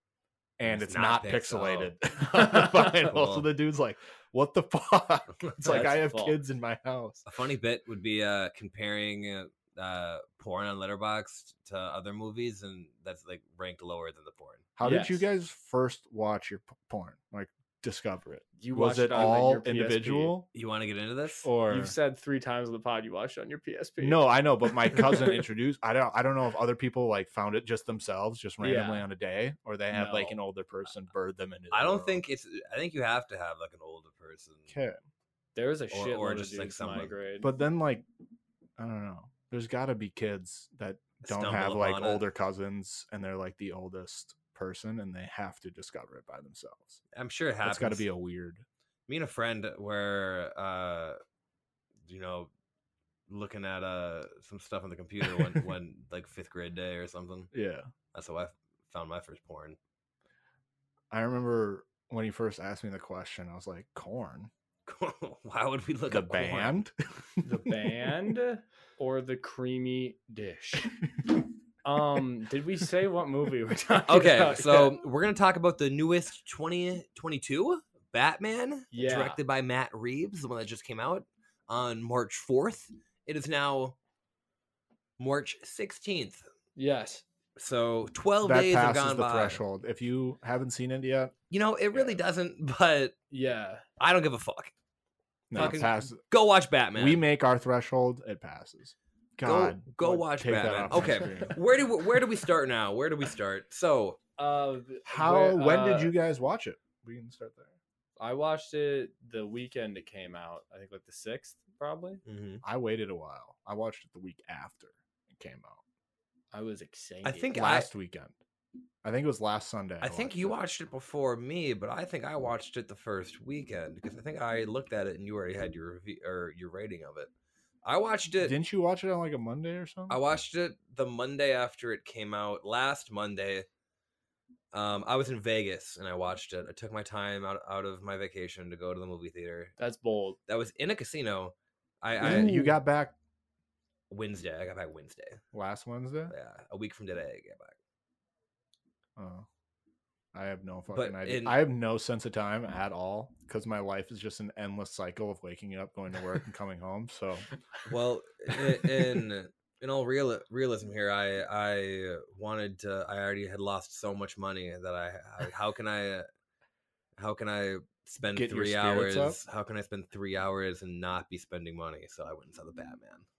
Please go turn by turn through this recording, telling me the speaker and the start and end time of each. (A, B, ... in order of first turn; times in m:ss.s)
0:00.6-0:07.3 A
0:00.6-0:01.9 B
0:02.4-0:02.9 C
0:03.1-0:03.5 B
0:05.6-0:06.4 C
0:07.3-0:14.7 B
0:14.8-0:20.5 A
0:14.8-0:15.2 C
0:18.6-0:20.3 C
0:20.5-0:21.5 B
0:21.3-0:22.0 A
0:21.7-0:25.5 C
0:24.0-0:32.2 A
0:28.6-0:29.1 C
0:29.9-0:30.4 C
0:31.7-0:34.8 B
0:34.7-0:35.0 A
0:35.6-0:37.5 C
0:35.9-0:37.1 B
0:37.4-0:38.0 A
0:38.8-0:47.0 A
0:41.2-0:42.2 B
0:47.1-0:48.1 B
0:47.6-0:48.6 A
0:49.1-0:51.2 B
0:52.1-0:52.5 B
0:53.3-0:57.5 B
0:55.2-0:55.6 A
0:57.5-0:57.9 A
0:58.1-0:59.8 B
1:01.1-1:04.5 A
1:04.9-1:06.8 B
1:06.1-1:08.1 A
1:07.4-1:11.0 C
1:11.8-1:15.0 C
1:14.1-1:24.0 B
1:18.9-1:19.4 C
1:25.2-1:26.5 B
1:26.8-1:27.2 C
1:27.6-1:29.6 B
1:28.4-1:31.3 A
1:31.5-1:33.2 B
1:33.3-1:33.8 C
1:34.0-1:34.7 B
1:35.5-1:36.2 A
1:35.5-1:37.2 B
1:37.0-1:41.6 A
1:39.4-1:44.2 B
1:44.4-1:46.2 C
1:45.1-1:47.7 A
1:48.2-1:52.2 C
1:52.2-1:52.6 B
1:52.6-1:55.8 A
1:56.5-1:57.5 C
1:57.2-1:57.9 B
1:57.5-1:58.4 A
1:59.0-2:00.6 A
2:00.0-2:07.3 B
2:07.8-2:08.6 B
2:08.4-2:10.2 A
2:10.1-2:13.7 B
2:14.7-2:19.8 B
2:19.8-2:20.4 C
2:20.5-2:22.6 B
2:22.2-2:23.2 A
2:22.2-2:22.8 C
2:24.1-2:25.4 B
2:25.5-2:26.3 A
2:26.3-2:27.8 B
2:29.2-2:29.5 A
2:30.3-2:37.5 A
2:30.9-2:31.6 B
2:37.8-2:46.3 B
2:47.2-2:53.3 B
2:48.2-2:49.4 A